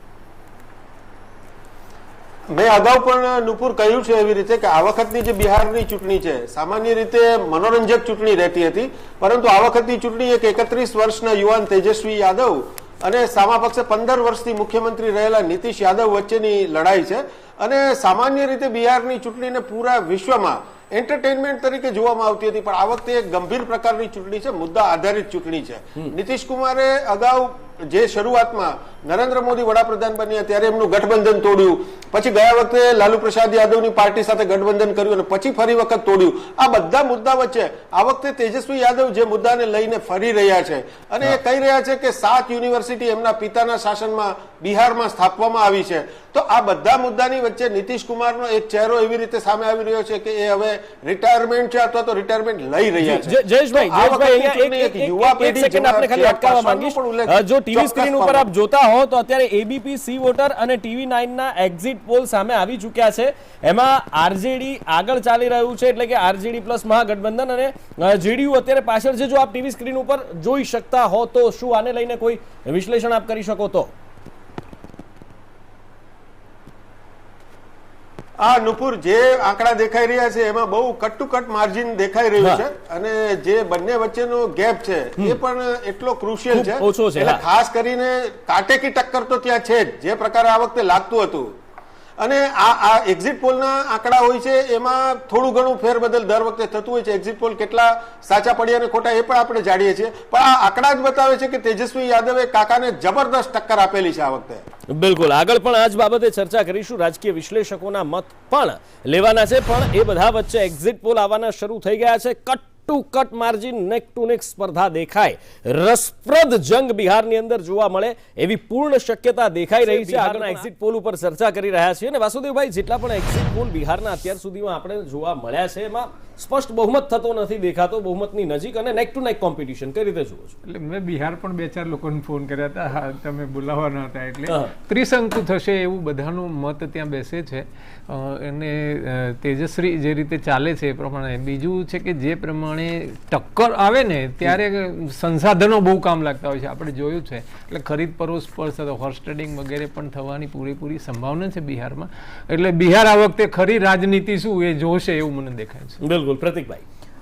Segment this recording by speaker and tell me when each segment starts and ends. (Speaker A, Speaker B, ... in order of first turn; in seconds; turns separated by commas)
Speaker A: 2.5-58.5, Speaker B: 53.0-73.9, Speaker A: 78.4-91.5, Speaker B: 86.5-87.4, Speaker A: 92.2-104.6, Speaker B: 104.9-130.5, Speaker C: 119.9-120.5, Speaker C: 130.7-156.0, Speaker B: 134.5-134.7, Speaker B: 156.0-156.8